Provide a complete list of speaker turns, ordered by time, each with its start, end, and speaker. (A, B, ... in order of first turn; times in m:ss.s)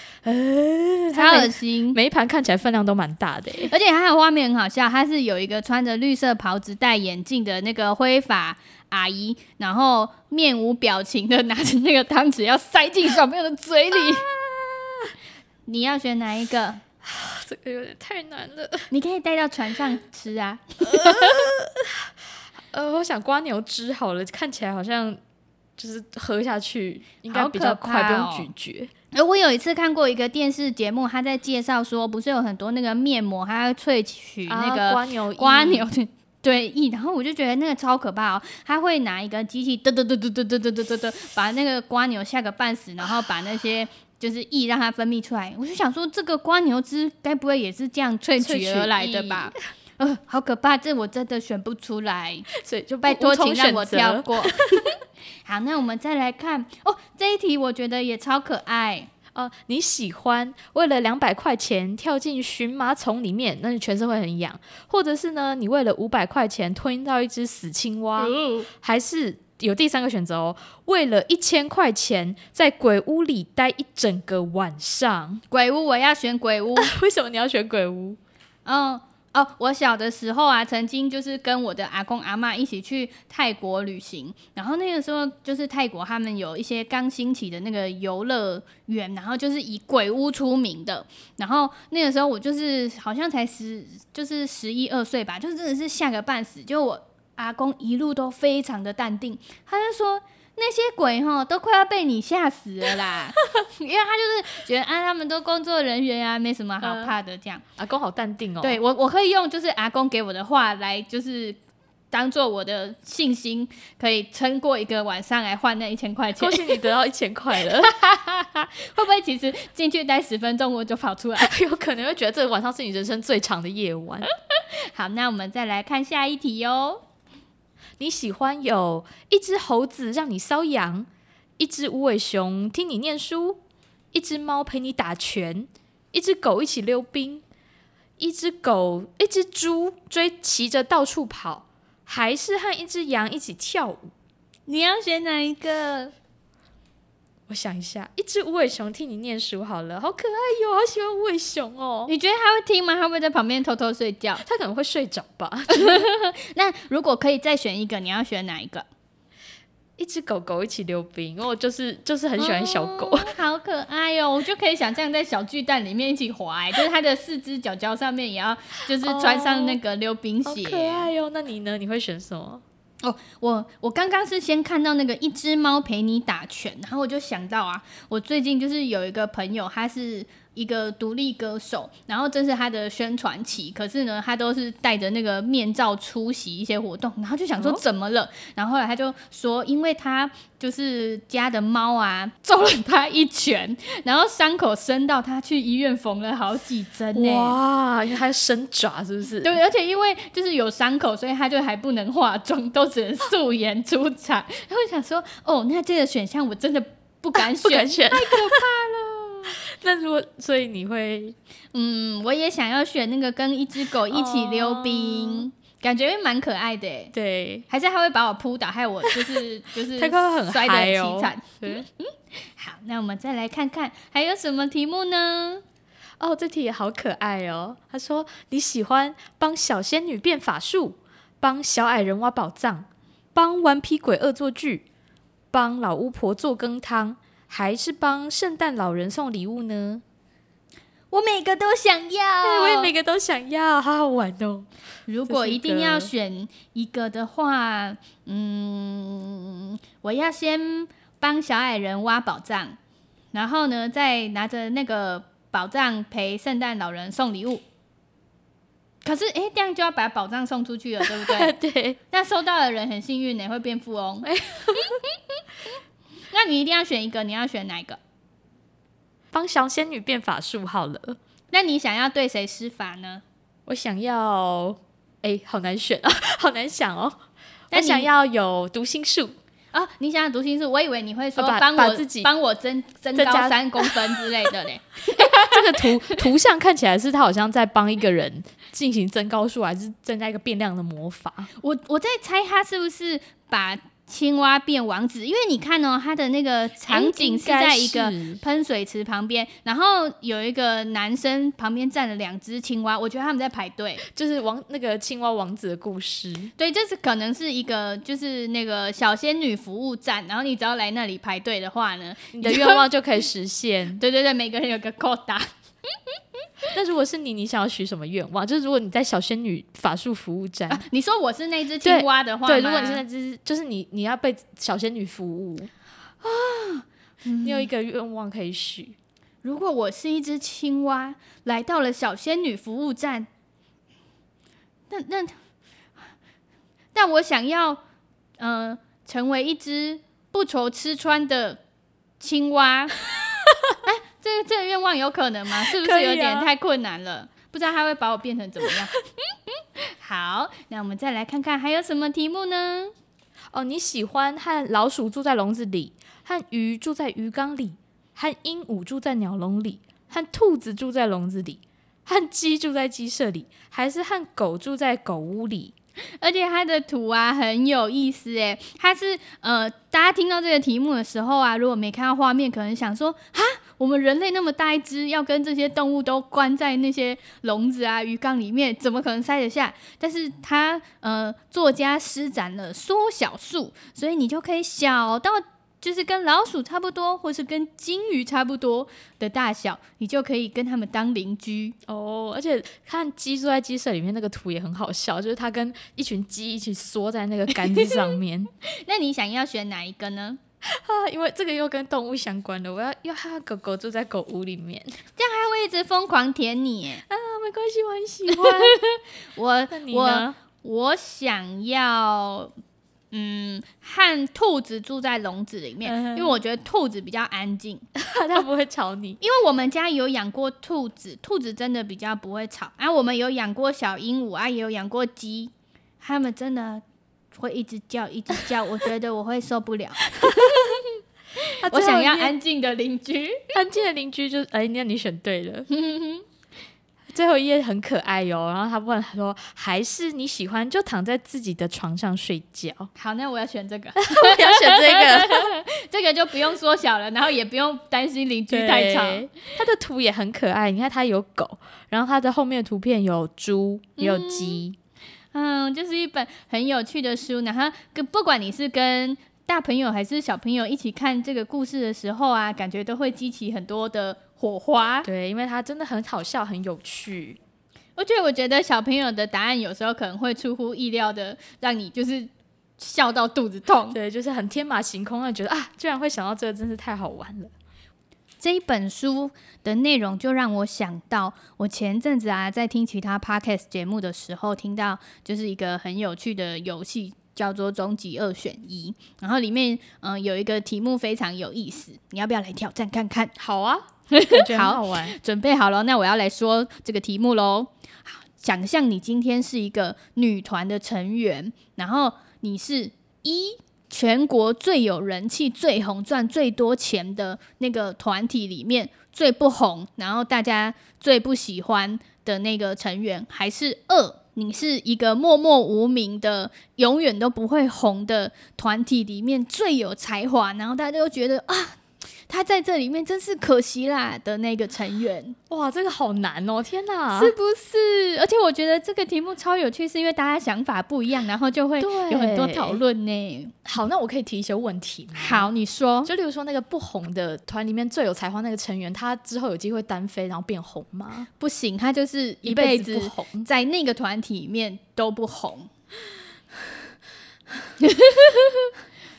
0:00.2-0:03.7 A
0:01.1-0:02.0 B
0:03.7-0:14.3 B
0:14.3-0:15.1 A
0:15.7-0:16.8 B
0:17.0-0:18.9 A
0:18.9-0:21.4 B
0:20.8-0:22.1 A
0:22.7-0:25.2 A
0:25.8-0:28.9 A
0:27.3-0:28.5 B
0:29.1-0:52.5 B
0:34.5-0:35.9 A
0:48.4-0:49.6 A
0:52.5-0:54.9 A
0:53.0-0:54.9 B
0:55.4-0:59.1 B
0:59.4-1:15.4 A
1:08.2-1:08.7 B
1:15.5-1:16.9 B
1:16.8-1:18.2 A
1:18.6-1:47.6 B
1:46.8-1:47.1 A
1:47.8-1:48.8 A
1:48.6-1:51.6 B
1:52.1-1:56.8 B
1:56.4-1:57.9 A
1:57.8-2:01.5 B
2:01.4-2:04.3 A
2:04.5-2:07.0 B
2:08.0-2:11.1 A
2:11.6-2:13.6 A
2:14.1-2:17.4 A
2:18.2-2:24.1 A
2:24.7-2:26.1 B
2:27.5-2:32.1 A
2:32.1-2:34.4 B
2:34.4-2:36.0 A
2:35.7-2:38.9 B
2:40.0-2:43.4 A
2:42.4-2:51.1 B
2:49.0-2:49.8 A
2:50.4-2:52.6 A
2:53.0-3:17.6 B
3:17.1-3:19.6 A
3:19.4-3:29.6 B
3:27.5-3:28.6 A
3:29.6-3:31.4 A
3:31.7-3:37.1 B
3:34.1-3:35.5 A
3:37.1-3:37.7 A
3:37.7-3:45.6 B
3:39.0-3:39.4 A
3:40.0-3:41.9 A
3:46.2-3:54.8 A
3:55.5-4:00.0 A
4:01.1-4:02.9 B
4:02.4-4:04.7 A
4:05.1-4:12.8 B
4:05.3-4:06.1 A
4:13.3-4:17.6 B
4:19.0-4:21.5 B
4:21.0-4:22.0 A
4:22.1-4:24.3 B
4:24.2-4:25.0 A
4:26.3-4:28.0 B
4:29.3-4:31.2 A
4:31.5-4:33.2 B
4:33.7-4:37.2 A
4:37.7-4:39.4 A
4:37.7-4:38.1 B
4:39.7-4:46.2 B
4:41.4-4:42.3 A
4:43.2-4:44.2 A
4:45.2-4:51.5 A
4:51.6-5:04.0 B
4:56.9-4:58.4 A
5:04.1-5:06.5 A
5:06.6-5:12.8 B
5:12.3-5:14.0 A
5:14.0-5:16.0 B
5:16.7-5:20.8 A
5:20.7-5:23.0 B
5:21.8-5:25.7 A
5:26.2-5:27.7 B
5:27.4-5:29.0 A
5:29.4-5:33.3 B
5:34.9-5:35.4 B
5:36.9-5:37.8 B
5:38.4-5:41.6 B
5:42.2-5:43.0 B
5:43.8-5:49.0 B
5:45.7-5:46.5 A
5:49.8-5:52.9 B
5:53.5-6:05.7 A
6:06.2-6:31.8 B
6:31.9-6:38.5 A
6:37.6-6:40.4 B
6:40.6-6:45.0 A
6:45.2-6:47.0 B
6:47.1-6:48.8 A
6:48.3-6:52.5 B
6:49.7-6:50.4 A
6:53.1-6:57.9 B
6:55.8-6:56.4 A
6:58.0-6:59.2 A
6:59.2-7:10.9 B
7:10.2-7:10.6 A
7:11.6-7:12.3 A
7:11.7-7:13.4 B
7:13.5-7:15.7 A
7:15.7-7:16.2 B
7:17.1-7:22.9 A
7:23.0-7:29.3 B
7:24.0-7:25.6 A
7:28.5-7:34.8 A
7:34.0-7:34.6 B
7:35.3-7:45.1 B
7:45.0-7:47.4 A
7:48.0-7:54.0 B
7:53.9-7:57.5 A
7:58.4-8:13.3 B
8:13.4-8:15.2 A
8:14.1-8:45.4 B
8:45.5-8:47.3 A
8:47.1-8:53.5 B
8:51.8-8:52.8 A
8:53.6-8:55.5 A
8:55.1-8:56.1 B
8:56.0-9:01.3 A
9:01.4-9:05.7 B
9:02.4-9:03.5 A
9:07.8-9:08.7 B